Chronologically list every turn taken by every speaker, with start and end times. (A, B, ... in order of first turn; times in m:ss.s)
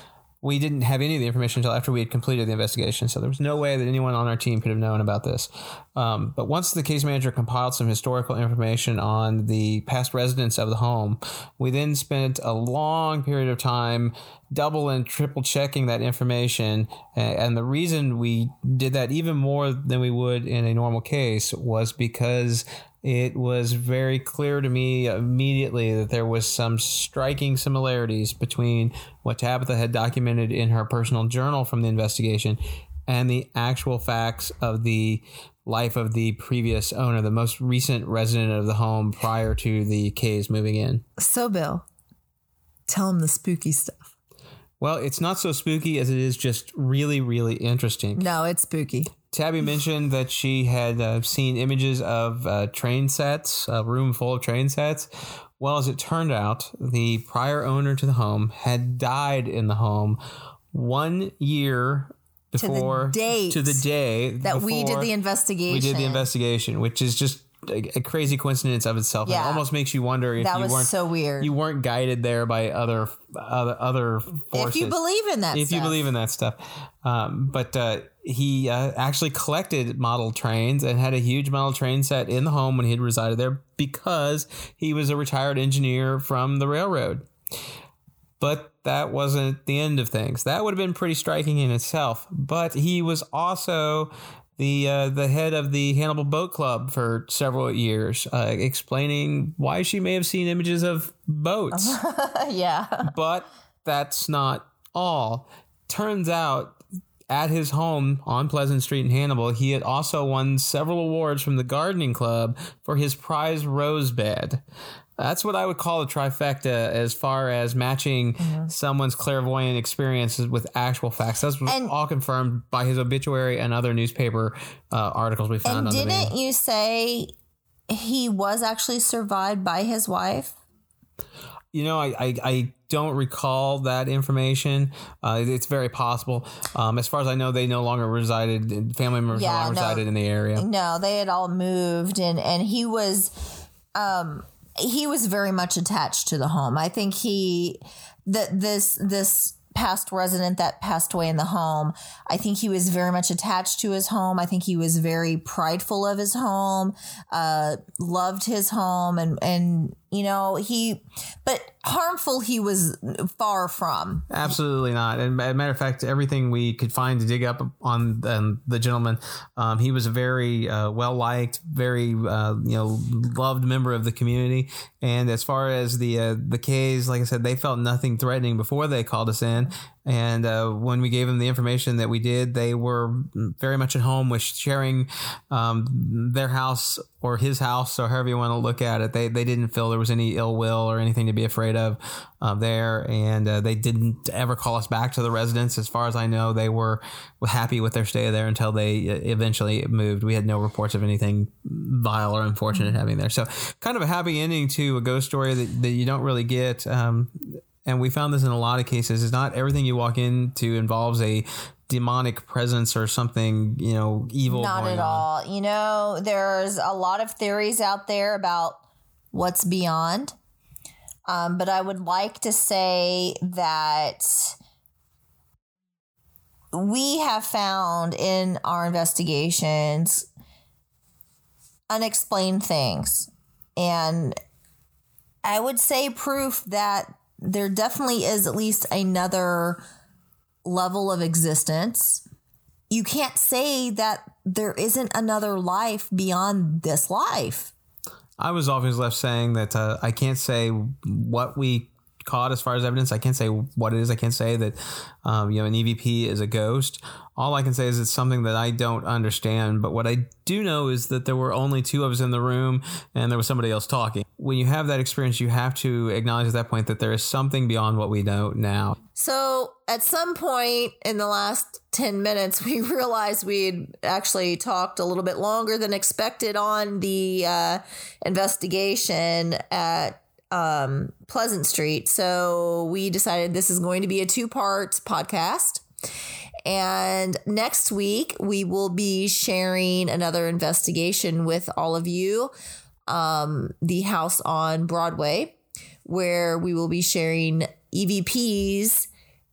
0:00.4-0:41.0 A
0:41.2-0:41.8 B
0:42.9-0:44.0 B
0:44.8-0:48.2 A
0:48.1-0:49.1 B
0:49.3-0:55.1 A
0:55.6-1:00.2 A
1:00.7-1:05.1 A
1:02.6-1:03.8 B
1:04.4-1:06.3 B
1:05.7-1:15.0 A
1:09.2-1:09.6 B
1:10.4-1:11.5 B
1:14.5-1:16.0 B
1:15.5-1:27.3 A
1:28.4-1:42.0 A
1:41.7-1:43.1 B
1:43.0-1:54.6 A
1:55.2-2:06.3 A
1:58.4-1:58.7 B
2:01.6-2:01.9 B
2:05.6-2:07.3 B
2:07.9-2:10.5 B
2:11.7-2:20.6 A
2:19.3-2:23.3 B
2:23.9-2:44.3 B
2:44.3-3:35.2 A
3:34.5-3:40.3 B
3:41.3-3:44.6 B
3:46.7-3:50.3 B
3:51.9-3:54.4 B
3:55.4-3:59.8 B
4:00.6-4:02.2 B
4:02.9-4:07.7 B
4:08.4-4:29.0 A
4:29.2-4:45.8 B
4:46.6-4:52.5 B
4:53.1-4:59.1 B